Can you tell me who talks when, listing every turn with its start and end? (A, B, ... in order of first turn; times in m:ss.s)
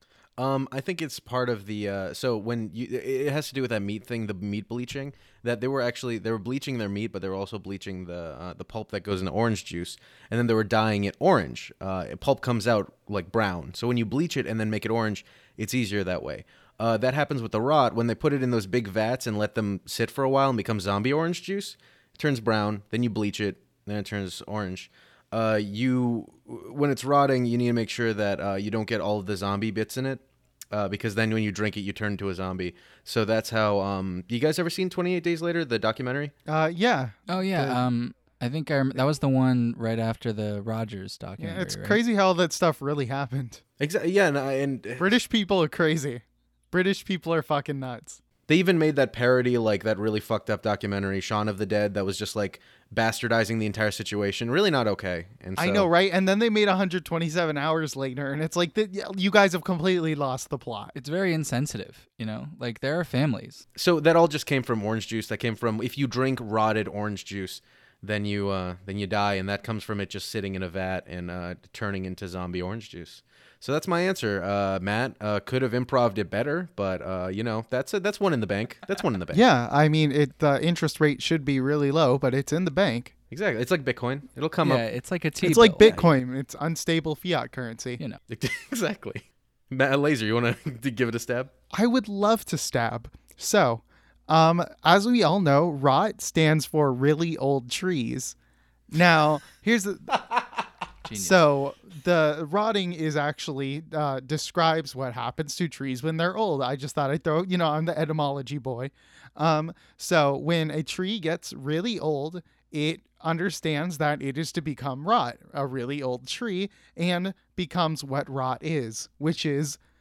0:00.4-0:36.3 A
0:36.5-0:37.8 B
0:37.3-0:42.0 C
0:41.4-0:43.6 B
0:43.8-0:45.1 A
0:45.0-0:48.2 B
0:48.5-0:55.9 A
0:55.6-1:00.9 B
1:00.9-1:03.6 C
1:03.8-1:19.4 A
1:19.3-1:23.1 B
1:23.3-1:24.9 A
1:24.6-1:25.9 C
1:25.4-1:28.0 B
1:25.8-1:26.1 A
1:28.3-1:31.5 A
1:31.7-1:38.4 B
1:38.9-1:40.2 B
1:41.0-1:41.4 C
1:41.1-1:59.8 B